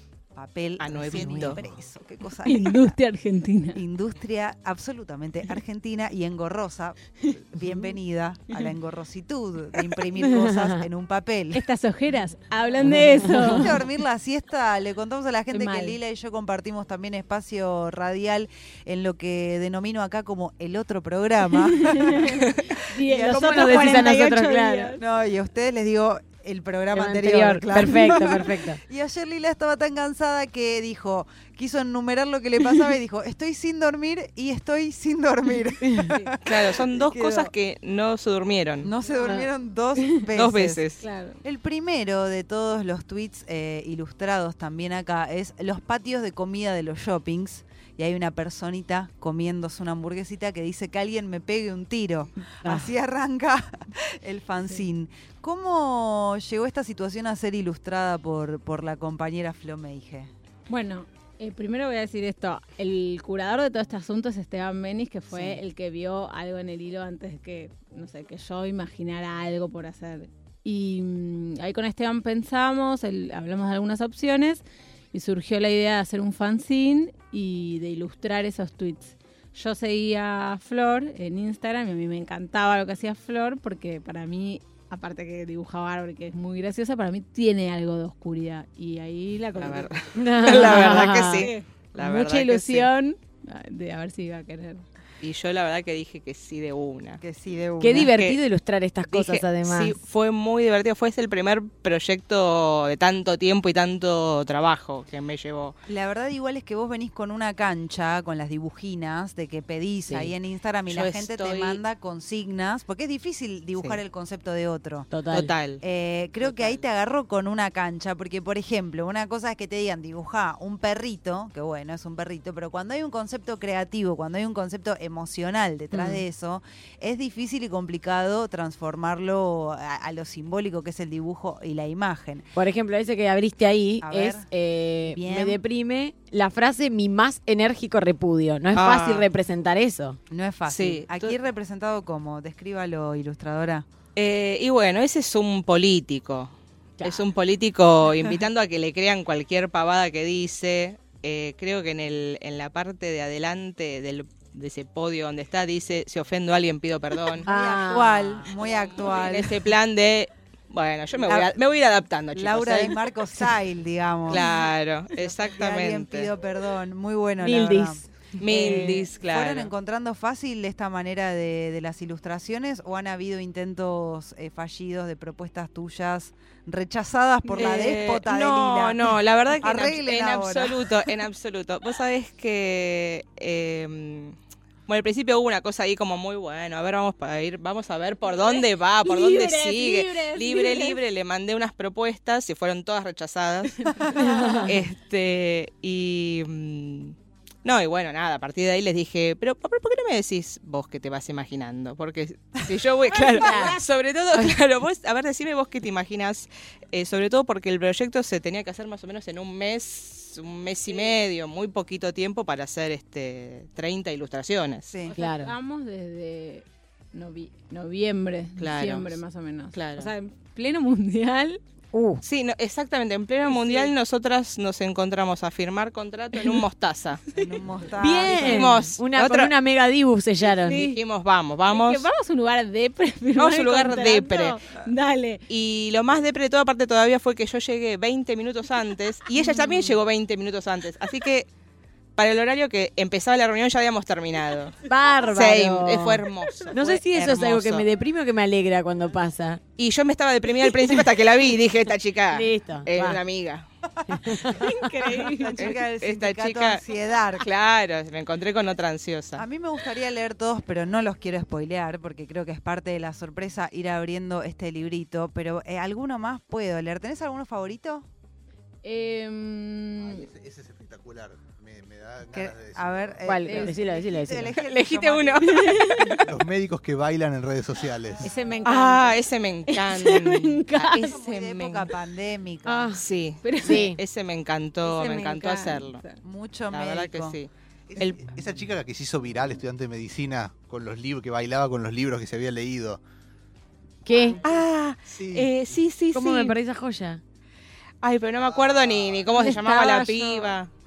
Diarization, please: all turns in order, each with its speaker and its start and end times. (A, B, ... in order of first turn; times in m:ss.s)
0:00.3-0:03.0 A
0:00.8-0:01.6 B
0:01.0-0:01.7 C
0:02.4-0:03.8 D
0:03.7-0:11.6 A
0:10.3-0:10.7 C
0:11.5-0:13.8 D
0:13.2-0:13.7 C
0:13.3-0:24.2 A
0:15.5-0:16.0 D
0:21.6-0:25.0 D
0:23.3-0:25.0 C
0:25.0-0:37.5 A
0:26.9-0:28.8 C
0:35.8-0:36.1 C
0:36.4-0:38.9 B
0:38.8-0:40.8 A
0:40.3-0:41.0 B
0:41.0-0:41.4 D
0:41.4-1:00.3 A
0:52.6-0:52.9 C
1:00.7-1:29.9 D
1:29.6-1:32.9 B
1:30.1-1:31.5 C
1:30.4-1:34.8 D
1:35.2-1:37.2 B
1:37.2-1:38.1 A
1:37.8-1:40.0 C
1:37.9-1:38.4 B
1:39.1-1:45.7 B
1:45.9-1:55.1 A
1:50.9-1:51.8 B
1:55.1-1:55.5 C
1:55.3-1:55.8 B
1:55.8-2:12.5 A
1:56.4-1:56.8 B
2:05.9-2:06.2 C
2:12.5-2:20.2 C
2:14.0-2:14.5 A
2:15.0-2:15.6 A
2:18.7-2:19.3 B
2:20.3-2:23.9 A
2:20.7-2:21.4 B
2:24.1-2:37.5 B
2:27.0-2:27.3 C
2:37.4-2:39.6 A
2:37.4-2:38.5 C
2:38.5-2:43.0 B
2:41.2-2:41.5 A
2:42.3-2:44.5 A
2:44.3-2:46.3 B
2:45.2-3:01.0 A
2:47.4-2:48.0 C
2:48.4-2:49.7 B
2:57.5-3:04.3 B
3:04.9-3:34.9 B
3:08.3-3:11.0 D
3:13.8-3:14.7 D
3:14.2-3:14.7 C
3:23.2-3:23.8 D
3:23.3-3:23.8 C
3:34.9-3:35.1 A
3:35.1-3:41.6 D
3:35.2-3:35.5 C
3:38.6-3:39.2 B
3:39.7-3:40.1 B
3:41.9-3:42.2 C
3:42.2-3:47.2 B
3:43.5-3:43.9 D
3:46.4-3:46.6 D
3:47.3-3:48.7 A
3:48.0-3:50.8 C
3:48.1-3:49.5 B
3:50.4-3:52.1 B
3:50.6-3:51.0 D
3:51.7-3:55.4 D
3:53.4-3:54.6 B
3:55.5-4:01.5 B
4:02.2-4:07.8 B
4:04.8-4:09.6 C
4:09.8-4:13.6 B
4:12.3-4:13.2 C
4:14.1-4:14.7 C
4:14.1-4:14.4 A
4:14.4-4:15.7 D
4:15.2-4:17.5 A
4:15.5-4:19.4 B
4:19.3-4:28.0 A
4:28.8-4:30.3 D
4:30.0-4:33.2 E
4:32.3-4:35.6 A
4:33.2-4:34.6 C
4:33.5-4:33.8 D
4:34.6-4:36.3 B
4:35.4-4:36.2 D
4:36.2-4:38.4 E
4:38.2-4:41.1 D
4:38.6-4:41.9 B
4:41.0-4:43.0 A
4:42.6-4:43.0 C
4:43.0-4:46.0 B
4:43.4-4:43.9 D
4:43.6-4:44.0 C
4:44.8-4:46.2 D
4:46.2-4:47.4 A
4:46.7-4:48.2 B
4:47.9-4:53.0 E
4:54.0-4:54.4 C
4:54.4-4:56.6 B
4:55.1-4:55.7 E
4:56.1-4:57.2 C
4:58.0-5:00.7 B
4:58.4-4:59.3 E
4:59.4-5:00.6 D